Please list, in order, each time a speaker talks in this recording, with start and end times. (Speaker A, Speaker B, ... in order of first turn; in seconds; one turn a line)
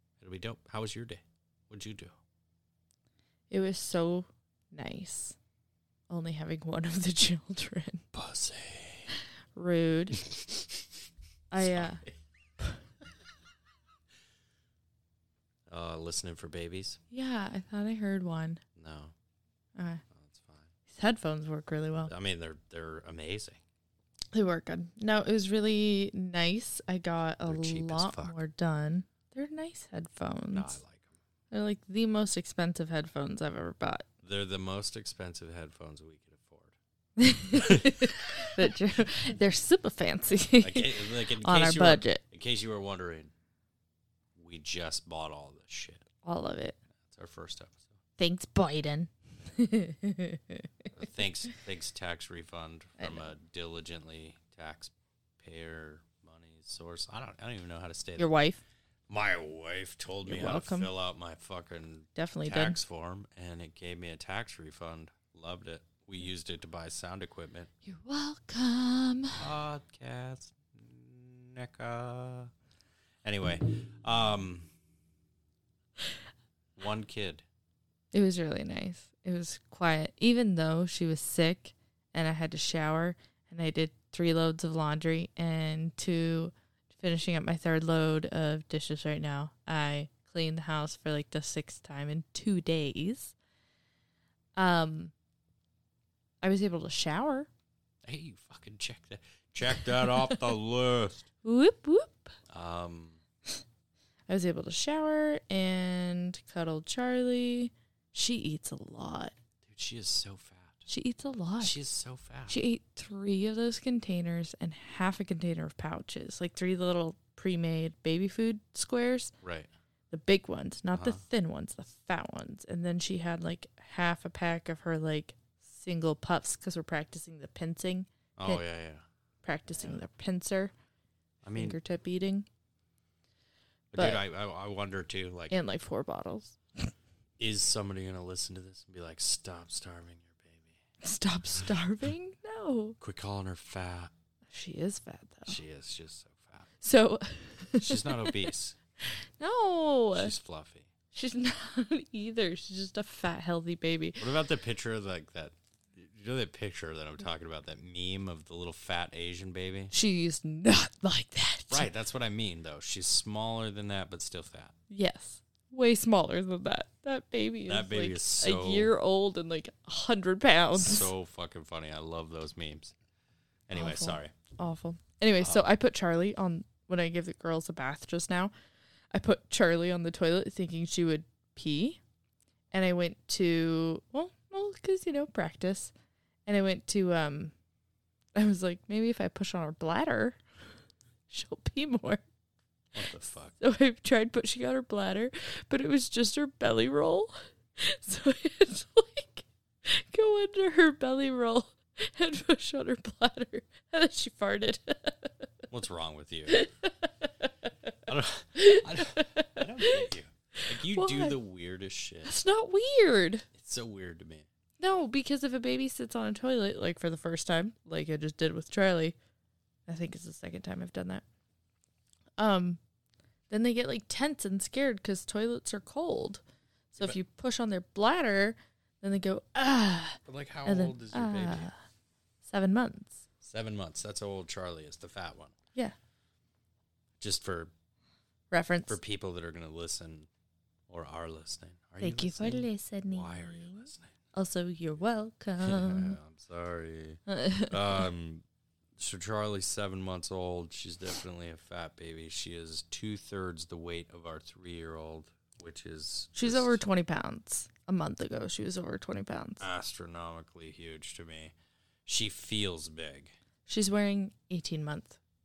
Speaker A: 0.2-2.1
Speaker B: 3.5-5.4
Speaker B: 6.1-8.0
Speaker A: 8.1-9.1
Speaker B: 9.5-10.3
Speaker B: 11.5-12.0
Speaker A: 11.6-12.1
Speaker A: 15.7-17.0
Speaker B: 17.1-18.6
Speaker A: 18.8-19.1
Speaker B: 19.8-20.0
Speaker A: 20.1-20.7
Speaker B: 20.9-22.1
Speaker A: 22.1-23.6
Speaker B: 24.3-30.8
Speaker A: 27.4-28.4
Speaker A: 30.5-31.1
Speaker B: 31.5-34.0
Speaker A: 34.2-36.8
Speaker B: 37.2-42.2
Speaker A: 37.5-38.2
Speaker A: 40.4-43.3
Speaker A: 44.4-46.1
Speaker B: 46.2-46.8
Speaker A: 47.1-47.9
Speaker B: 48.2-50.6
Speaker A: 50.9-58.3
Speaker B: 53.0-53.3
Speaker B: 58.2-58.6
Speaker A: 59.1-67.7
Speaker B: 60.2-60.9
Speaker B: 62.1-62.8
Speaker B: 67.8-69.4
Speaker A: 69.3-72.5
Speaker A: 73.2-74.7
Speaker A: 76.8-77.4
Speaker B: 78.1-93.3
Speaker B: 94.5-95.1
Speaker B: 96.4-97.5
Speaker A: 98.0-101.3
Speaker B: 100.0-100.4
Speaker B: 101.4-102.3
Speaker A: 102.5-103.2
Speaker B: 104.3-109.3
Speaker A: 109.6-110.8
Speaker B: 110.9-111.7
Speaker A: 111.6-112.6
Speaker B: 112.5-119.3
Speaker A: 119.4-119.7
Speaker B: 120.1-128.6
Speaker A: 120.9-121.2
Speaker A: 128.4-129.0
Speaker B: 129.4-130.7
Speaker A: 131.4-131.8
Speaker B: 131.5-132.5
Speaker A: 133.9-135.6
Speaker B: 133.9-134.2
Speaker B: 135.5-136.9
Speaker A: 137.4-140.8
Speaker B: 141.0-143.0
Speaker A: 143.0-144.1
Speaker B: 144.5-145.6
Speaker A: 145.4-146.7
Speaker B: 146.8-148.5
Speaker A: 147.8-148.8
Speaker B: 149.0-150.3
Speaker A: 150.1-150.9
Speaker B: 151.1-154.3
Speaker A: 154.2-159.9
Speaker B: 159.9-161.9
Speaker A: 161.7-164.7
Speaker B: 164.9-171.1
Speaker A: 167.7-168.9
Speaker A: 170.7-172.9
Speaker A: 173.7-174.3
Speaker B: 173.7-178.5
Speaker A: 175.4-175.7
Speaker B: 179.1-182.0
Speaker B: 182.7-185.9
Speaker B: 186.4-187.5
Speaker B: 188.3-190.4
Speaker B: 191.3-192.2
Speaker A: 192.9-193.5
Speaker B: 193.6-205.3
Speaker A: 205.7-206.6
Speaker B: 206.5-207.5
Speaker A: 208.1-212.3
Speaker B: 208.6-210.1
Speaker B: 210.7-211.4
Speaker B: 212.2-213.5
Speaker A: 213.5-214.4
Speaker B: 214.8-219.2
Speaker B: 219.9-221.2
Speaker B: 222.4-222.8
Speaker B: 223.5-226.4
Speaker B: 226.9-231.7
Speaker A: 230.2-231.7
Speaker B: 232.4-233.2
Speaker A: 233.4-235.6
Speaker A: 237.2-237.7
Speaker B: 238.5-239.0
Speaker A: 238.9-240.3
Speaker A: 240.9-244.1
Speaker B: 242.0-246.2
Speaker A: 245.6-248.4
Speaker B: 247.3-248.1
Speaker A: 249.0-256.8
Speaker B: 256.3-259.6
Speaker A: 259.6-261.5
Speaker A: 262.1-263.3
Speaker B: 263.6-265.2